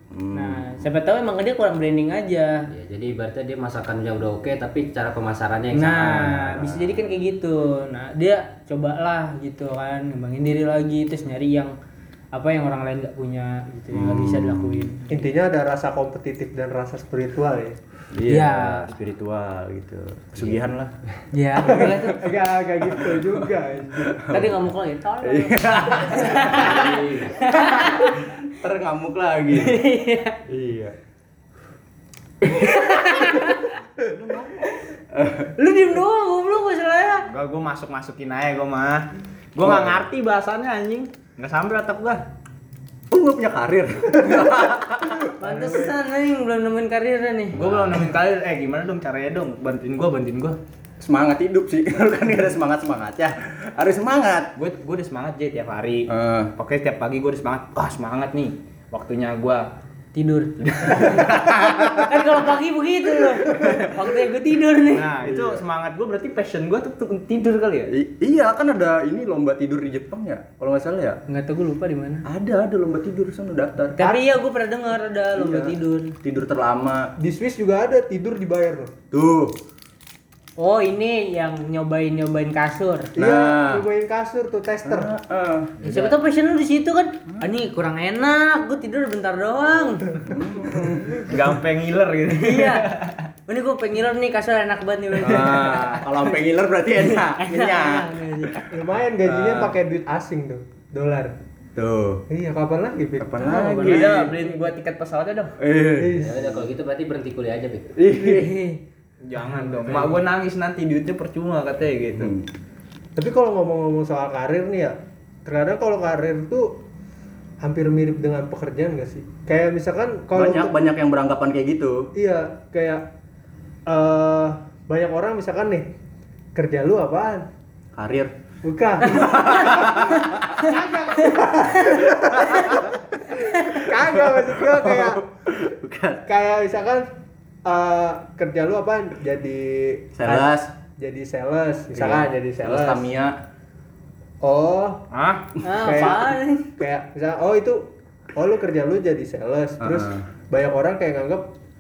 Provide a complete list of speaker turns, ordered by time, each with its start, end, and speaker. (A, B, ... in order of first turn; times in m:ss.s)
0:00.1-0:00.8 A
0:00.3-0:02.6 B
0:02.7-0:06.9 C
0:05.7-0:11.7 B
0:12.3-0:15.1 B
0:13.9-0:14.9 A
0:15.1-0:17.8 D
0:18.1-0:21.0 A
0:18.2-0:18.9 B
0:21.3-0:22.2 B
0:21.6-0:24.1 D
0:21.6-0:22.0 A
0:22.8-0:24.7 A
0:24.3-0:28.3 B
0:25.2-0:29.8 A
0:29.5-0:30.4 B
0:30.5-0:30.9 A
0:32.5-0:33.7 B
0:34.0-0:34.5 E
0:35.1-0:35.5 A
0:35.6-0:37.3 B
0:37.3-0:42.2 E
0:39.6-0:40.0 A
0:43.1-0:45.6 A
0:45.4-0:47.6 B
0:45.4-0:45.8 D
0:47.5-0:50.6 E
0:47.6-0:48.1 A
0:51.0-0:54.5 A
0:54.6-0:59.6 E
0:56.1-0:56.5 A
1:00.1-1:05.1 B
1:00.7-1:01.1 E
1:01.0-1:02.0 A
1:04.9-1:07.9 E
1:05.2-1:05.6 A
1:07.9-1:11.2 A
1:11.3-1:12.2 B
1:12.2-1:14.1 A
1:14.0-1:16.1 B
1:15.3-1:17.1 A
1:17.2-1:18.9 D
1:19.1-1:19.5 A
1:20.6-1:23.1 B
1:23.2-1:23.9 A
1:23.2-1:25.1 D
1:24.8-1:25.7 A
1:25.8-1:26.2 E
1:25.8-1:30.4 B
1:30.2-1:31.2 A
1:31.3-1:33.2 E
1:32.4-1:32.9 B
1:33.5-1:36.3 B
1:35.2-1:38.4 A
1:37.2-1:38.7 B
1:38.7-1:41.4 D
1:39.2-1:39.8 A
1:41.8-1:42.2 A
1:42.3-1:44.4 D
1:43.2-1:44.3 A
1:43.4-1:44.1 B
1:43.7-1:45.6 E
1:45.6-1:46.2 A
1:45.9-1:46.7 D
1:46.2-1:48.0 C
1:48.0-1:48.5 A
1:48.2-1:48.8 B
1:49.2-1:52.4 E
1:49.6-1:50.2 B
1:52.2-1:52.5 A
1:53.2-1:56.7 D
1:57.6-2:00.7 D
2:00.3-2:02.1 A
2:02.1-2:03.0 D
2:03.9-2:05.9 D
2:06.5-2:07.5 D
2:08.0-2:08.3 A
2:08.6-2:15.2 D
2:09.1-2:10.8 A
2:11.8-2:12.9 A
2:13.7-2:16.2 A
2:16.2-2:17.1 D
2:17.6-2:23.0 D
2:20.2-2:20.7 A
2:21.9-2:23.4 A
2:24.4-2:25.0 D
2:25.1-2:25.6 E
2:25.6-2:26.7 B
2:25.8-2:31.5 D
2:29.8-2:30.2 A